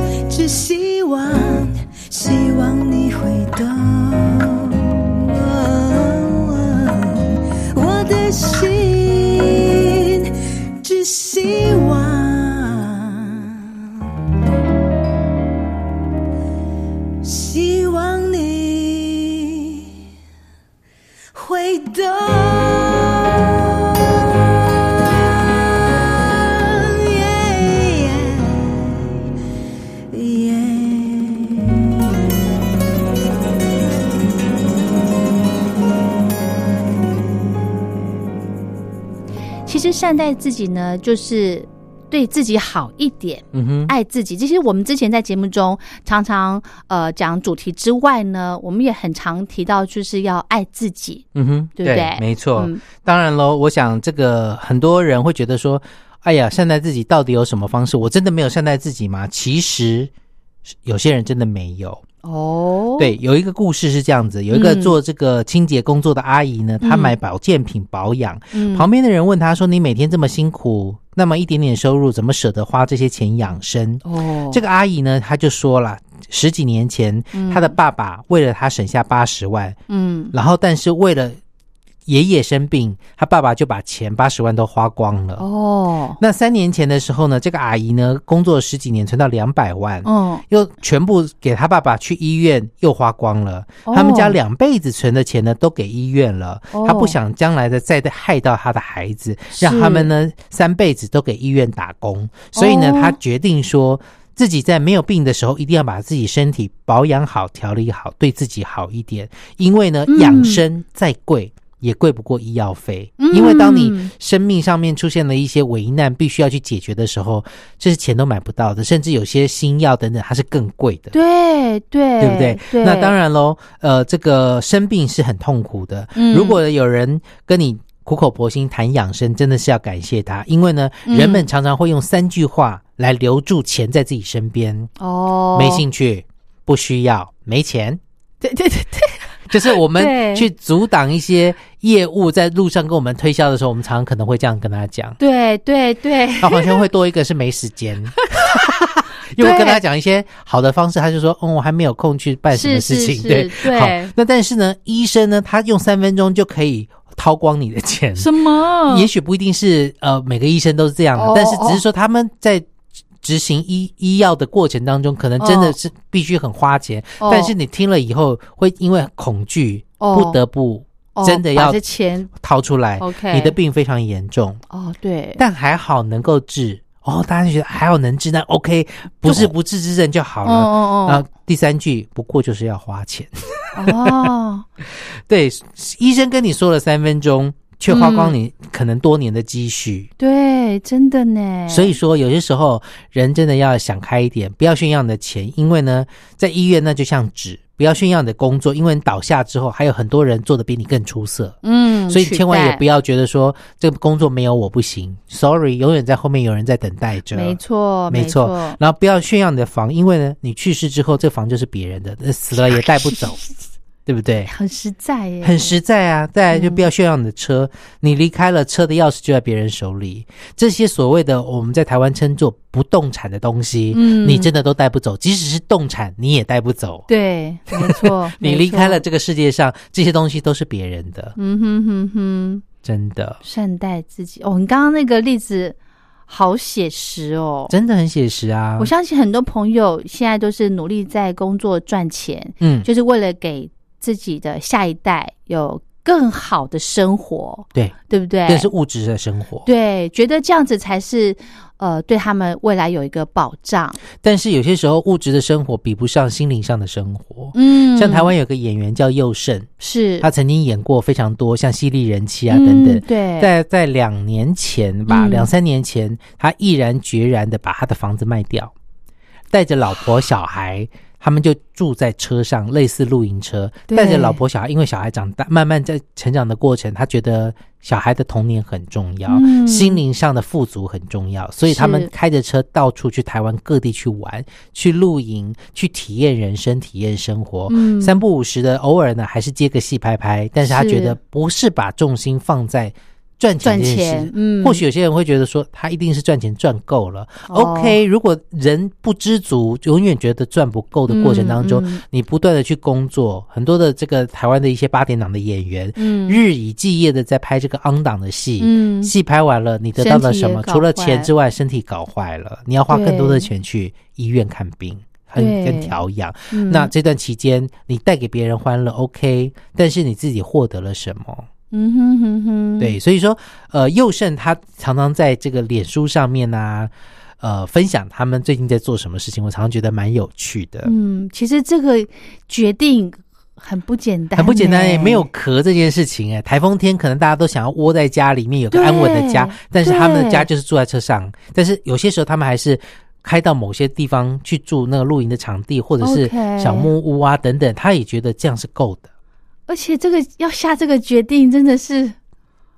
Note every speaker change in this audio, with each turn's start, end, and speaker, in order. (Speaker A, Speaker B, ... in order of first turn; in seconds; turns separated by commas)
Speaker A: 0.3-13.8, Speaker A: 17.2-19.9, Speaker A: 21.3-23.8, Speaker A: 25.4-29.1, Speaker A: 30.1-32.2, Speaker B: 39.6-51.2, Speaker C: 43.5-43.9, Speaker C: 51.3-60.1, Speaker B: 51.8-52.8, Speaker C: 60.7-62.0, Speaker B: 62.2-63.1, Speaker C: 63.0-79.8, Speaker B: 64.5-65.0, Speaker B: 66.8-67.2, Speaker B: 68.5-68.9, Speaker B: 74.0-74.6, Speaker B: 77.3-77.7, Speaker B: 79.9-80.3, Speaker C: 80.3-81.4, Speaker C: 82.0-85.5, Speaker B: 85.4-86.2, Speaker C: 86.2-121.2, Speaker B: 90.0-90.4, Speaker B: 93.8-94.3, Speaker B: 96.7-97.2, Speaker B: 99.5-100.1, Speaker B: 102.5-103.2, Speaker B: 110.1-110.6, Speaker B: 113.2-114.1, Speaker B: 121.1-123.2, Speaker C: 122.2-134.9, Speaker B: 126.2-126.6, Speaker B: 131.1-131.5, Speaker B: 135.0-135.8, Speaker C: 135.5-138.0, Speaker B: 138.4-140.5, Speaker C: 139.5-145.2, Speaker B: 145.2-146.8, Speaker C: 146.4-158.3, Speaker B: 149.4-149.8, Speaker B: 152.5-154.1, Speaker B: 158.2-159.1, Speaker C: 158.8-162.7, Speaker B: 161.1-161.8, Speaker C: 163.2-171.8, Speaker B: 165.4-165.8, Speaker B: 167.2-167.5, Speaker B: 170.0-170.4, Speaker B: 171.1-172.3, Speaker C: 172.3-174.6, Speaker B: 173.0-173.6, Speaker B: 174.7-175.4, Speaker C: 175.4-184.2, Speaker B: 179.2-179.5, Speaker B: 180.4-181.2, Speaker B: 183.7-184.7, Speaker C: 184.9-190.1, Speaker B: 187.9-188.3, Speaker B: 190.2-191.9, Speaker C: 191.7-207.6, Speaker B: 201.6-202.8, Speaker B: 207.3-208.8, Speaker C: 208.1-213.4, Speaker C: 214.1-214.5, Speaker B: 214.5-215.8, Speaker C: 215.4-227.1, Speaker B: 216.5-216.8, Speaker B: 223.9-224.5, Speaker B: 227.1-229.0, Speaker C: 227.7-231.3, Speaker B: 231.4-232.6, Speaker C: 232.8-233.4, Speaker B: 233.4-235.8, Speaker B: 236.3-237.7, Speaker C: 237.7-238.9, Speaker B: 238.8-248.7, Speaker C: 242.6-242.9, Speaker C: 247.7-249.7, Speaker B: 249.6-254.0, Speaker C: 254.2-259.7, Speaker B: 257.5-258.3, Speaker B: 259.8-260.3, Speaker C: 260.2-268.7, Speaker B: 262.5-263.5, Speaker B: 265.1-265.5, Speaker C: 269.5-321.5, Speaker B: 273.9-274.4, Speaker B: 279.3-280.0, Speaker B: 281.7-282.1, Speaker B: 287.7-288.2, Speaker B: 290.6-291.2, Speaker B: 293.6-294.8, Speaker B: 297.5-298.0, Speaker B: 301.1-302.0, Speaker B: 306.0-306.4, Speaker B: 308.6-309.1, Speaker B: 309.9-311.3, Speaker B: 312.9-313.5, Speaker B: 315.4-316.0, Speaker B: 316.5-316.9, Speaker B: 321.7-323.0, Speaker C: 322.8-330.9, Speaker B: 330.8-335.3, Speaker C: 334.4-349.1, Speaker B: 338.7-340.5, Speaker B: 346.0-346.9, Speaker B: 349.7-352.1